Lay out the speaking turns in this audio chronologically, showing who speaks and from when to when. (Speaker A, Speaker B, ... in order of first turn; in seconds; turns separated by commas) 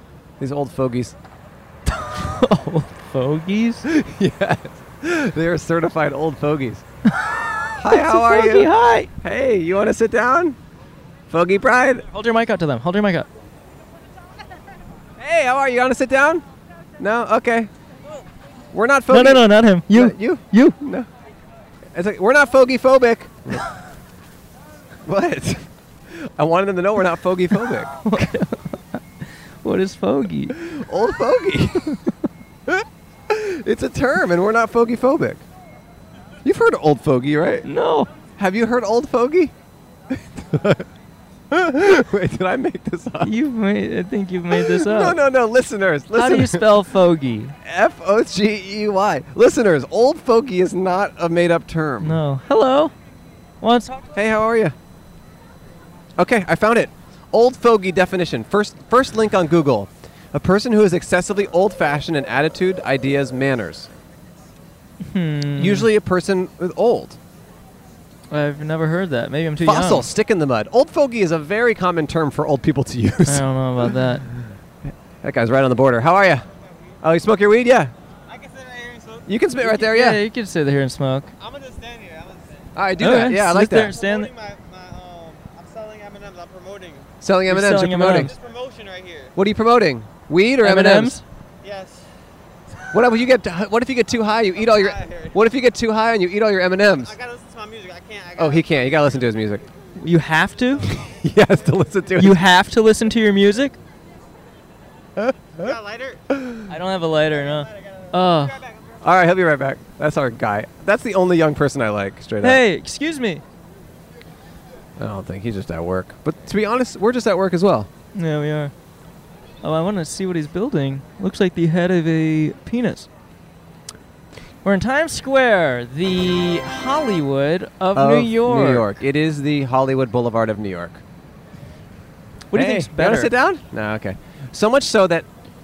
Speaker A: 0.4-1.2, Speaker B: 1.9-3.9, Speaker A: 3.9-6.8, Speaker A: 7.7-10.6, Speaker B: 7.8-9.1, Speaker A: 11.3-12.1, Speaker B: 12.1-13.3, Speaker A: 15.2-16.4, Speaker A: 17.0-17.7, Speaker A: 18.7-21.1, Speaker B: 19.1-20.8, Speaker A: 21.9-23.7, Speaker A: 25.0-28.3, Speaker B: 28.1-30.6, Speaker A: 30.6-32.0, Speaker A: 32.7-35.5, Speaker A: 36.4-37.7, Speaker B: 37.6-38.1, Speaker A: 38.4-39.5, Speaker A: 40.1-40.9, Speaker A: 41.5-43.4, Speaker B: 43.2-45.2, Speaker A: 44.5-46.7, Speaker B: 46.1-47.6, Speaker A: 47.6-52.2, Speaker B: 52.0-52.9, Speaker B: 53.6-54.0, Speaker A: 54.1-54.8, Speaker A: 56.2-63.9, Speaker B: 65.0-65.9, Speaker A: 65.6-67.2, Speaker B: 68.3-70.1, Speaker A: 69.6-74.5, Speaker B: 73.2-74.3, Speaker A: 75.2-76.5, Speaker C: 76.6-77.0, Speaker A: 77.0-77.9, Speaker C: 78.3-79.3, Speaker A: 79.3-80.2, Speaker B: 79.6-81.3, Speaker C: 81.4-82.8, Speaker A: 82.8-83.9, Speaker B: 83.0-84.3, Speaker C: 83.8-87.1, Speaker A: 87.2-88.3, Speaker B: 87.5-88.3, Speaker C: 88.1-89.3, Speaker A: 89.3-91.2, Speaker B: 90.6-91.2, Speaker C: 91.6-92.1, Speaker A: 92.9-97.1, Speaker C: 94.5-95.4, Speaker C: 97.0-99.4, Speaker A: 98.4-99.7, Speaker B: 100.0-100.9, Speaker C: 100.8-101.1, Speaker A: 100.9-102.4, Speaker B: 102.2-103.8, Speaker A: 105.2-105.7, Speaker C: 105.5-106.2, Speaker A: 106.3-106.6, Speaker B: 106.7-108.6, Speaker C: 107.1-109.1, Speaker A: 109.0-112.6, Speaker B: 112.4-113.4, Speaker A: 115.0-117.9, Speaker B: 118.2-118.7, Speaker B: 119.6-123.1, Speaker B: 124.6-128.9, Speaker A: 128.0-131.0, Speaker B: 132.5-133.3, Speaker A: 132.5-135.3